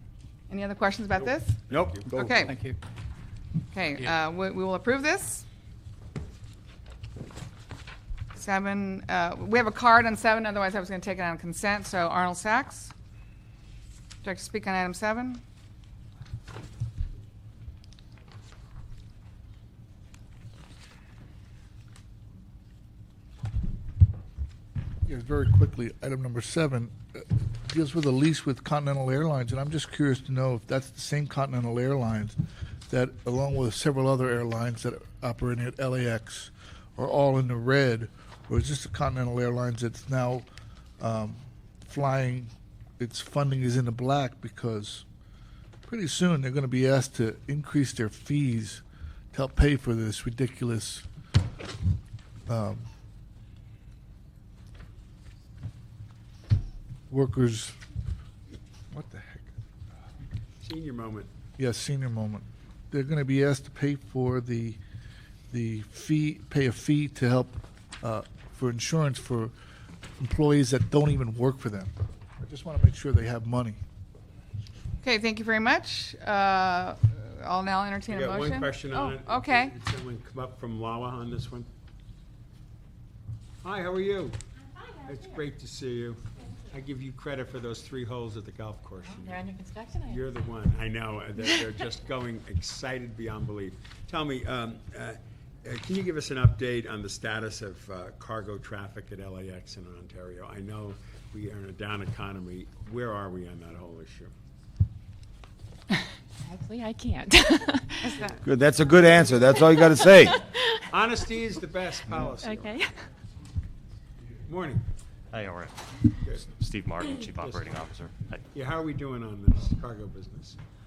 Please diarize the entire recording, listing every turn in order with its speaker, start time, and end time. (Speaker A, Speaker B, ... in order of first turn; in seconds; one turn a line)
Speaker A: 0.5-2.6
Speaker B: 1.1-2.5
Speaker A: 3.7-5.4
Speaker A: 8.3-12.9
Speaker A: 14.2-15.4
Speaker C: 25.0-40.5
Speaker C: 41.0-45.0
Speaker C: 45.9-48.8
Speaker C: 49.3-51.0
Speaker C: 52.5-52.9
Speaker C: 57.1-57.7
Speaker C: 58.9-59.5
Speaker B: 60.6-61.3
Speaker C: 61.6-64.8
Speaker C: 65.5-69.5
Speaker C: 70.2-73.8
Speaker A: 75.0-79.7
Speaker B: 78.1-81.7
Speaker B: 83.6-84.4
Speaker B: 85.0-104.3
Speaker D: 89.3-90.1
Speaker D: 106.5-108.0
Speaker A: 108.0-108.4
Speaker E: 108.4-110.4
Speaker B: 110.9-112.9
Speaker D: 112.5-112.9
Speaker B: 114.5-114.8
Speaker F: 115.3-115.8
Speaker F: 116.4-118.4
Speaker B: 117.4-117.7
Speaker B: 118.5-120.6